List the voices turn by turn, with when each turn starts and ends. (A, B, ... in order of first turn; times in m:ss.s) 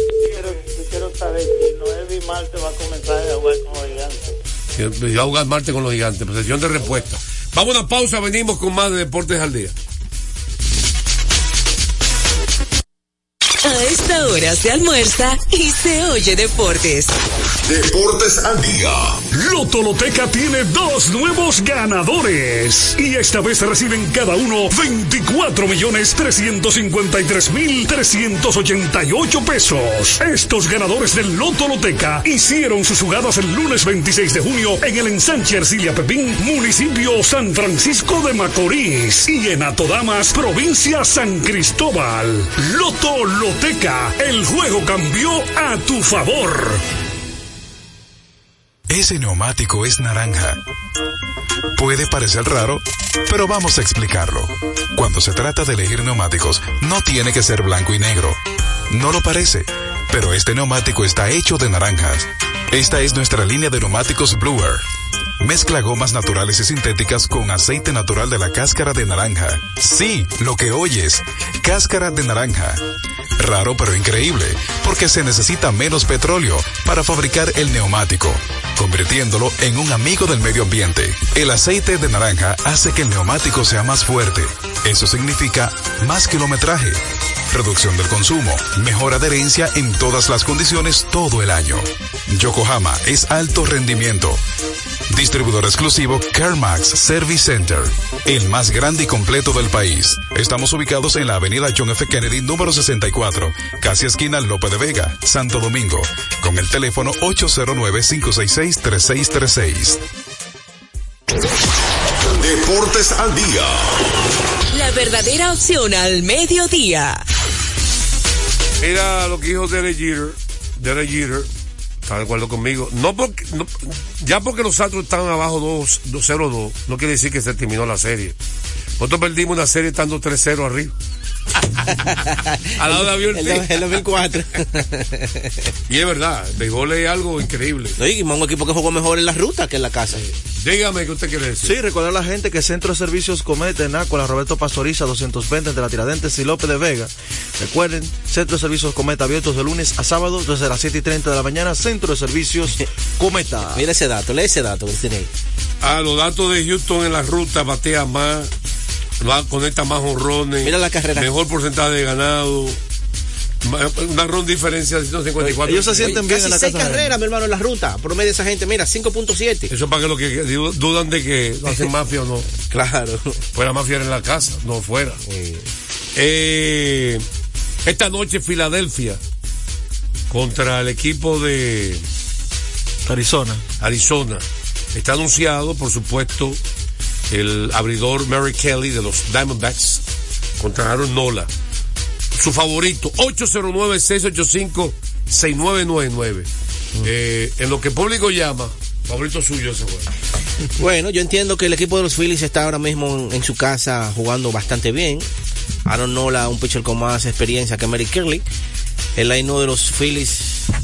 0:00.2-0:04.3 A
0:04.8-0:09.7 B
0:13.6-0:17.1 C
0:17.7-0:19.2 D
0:19.3-0:46.8 E
0:48.9-0:50.6 F
0:51.8-0:58.4 F
0:58.9-1:04.8 F
1:05.4-1:12.8 F
1:13.4-1:27.0 F
1:27.5-1:34.4 F
1:35.1-1:50.0 F
1:52.3-1:54.0 D
1:54.7-1:57.2 C
1:58.8-2:01.5 B
2:02.1-2:08.4 B
2:09.0-2:11.0 B
2:11.8-2:15.6 G
2:12.8-2:14.0 B
2:15.9-2:18.0 B
2:18.0-2:20.2 G
2:20.2-2:21.7 B
2:21.6-2:33.8 H
2:33.7-2:35.3 G
2:35.8-2:38.5 B
2:39.2-2:42.8 B
2:40.6-2:41.3 G
2:43.6-2:46.2 B
2:45.4-2:47.1 H
2:46.0-2:49.7 G
2:49.7-2:52.5 B
2:52.7-2:53.4 G
2:53.5-2:55.2 B
2:55.3-2:55.6 G
2:56.1-2:57.2 B
2:57.9-2:59.2 B
3:00.3-3:02.0 B
3:03.1-3:03.6 H
3:03.8-3:04.4 B
3:04.9-3:06.6 B
3:07.3-3:10.0 B
3:10.6-3:11.5 B
3:12.4-3:16.5 B
3:17.0-3:20.1 B
3:20.8-3:25.3 G
3:25.9-3:28.4 G
3:29.2-3:30.7 G